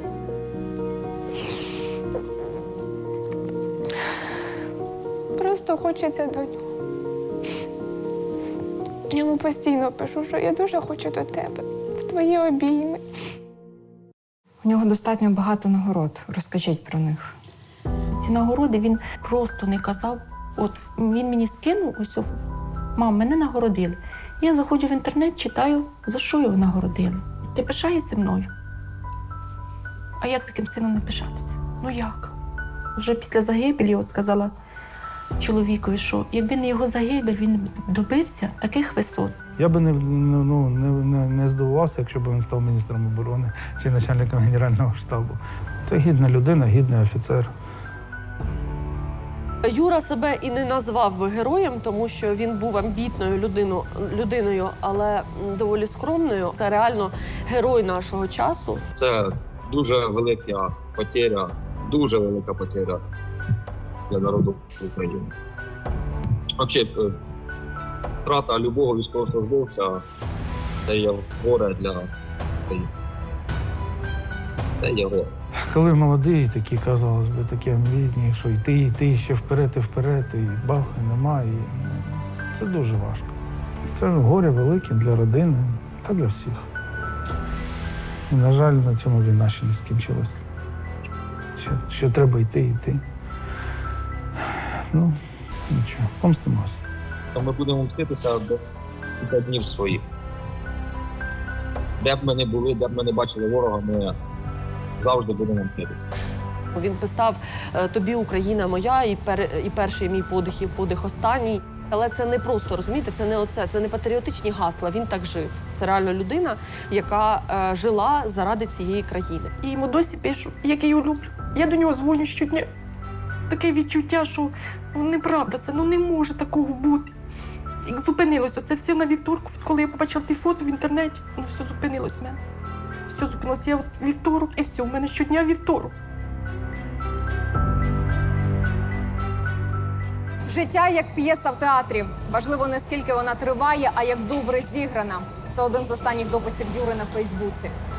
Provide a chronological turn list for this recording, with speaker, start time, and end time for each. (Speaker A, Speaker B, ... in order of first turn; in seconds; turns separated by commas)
Speaker A: 5.4-6.6, Speaker A: 9.1-13.0, Speaker B: 14.6-17.3, Speaker C: 18.1-22.4, Speaker C: 22.9-28.5, Speaker C: 30.2-32.3, Speaker C: 33.0-34.5, Speaker C: 35.4-39.4, Speaker D: 39.6-47.5, Speaker E: 49.6-58.8, Speaker F: 59.0-63.0, Speaker F: 64.1-65.3, Speaker F: 66.5-66.9, Speaker F: 68.2-70.0, Speaker F: 70.9-72.1, Speaker F: 74.8-75.3, Speaker D: 75.7-83.4, Speaker D: 83.9-86.7, Speaker D: 88.3-90.4, Speaker D: 91.5-93.0, Speaker D: 94.9-95.2, Speaker D: 95.7-96.8, Speaker F: 97.3-98.5, Speaker F: 99.2-100.0, Speaker F: 102.0-104.1, Speaker F: 105.0-106.0, Speaker E: 106.8-119.5, Speaker C: 119.6-122.7, Speaker C: 123.5-127.1, Speaker C: 127.8-132.4, Speaker C: 133.1-135.9, Speaker G: 140.5-147.7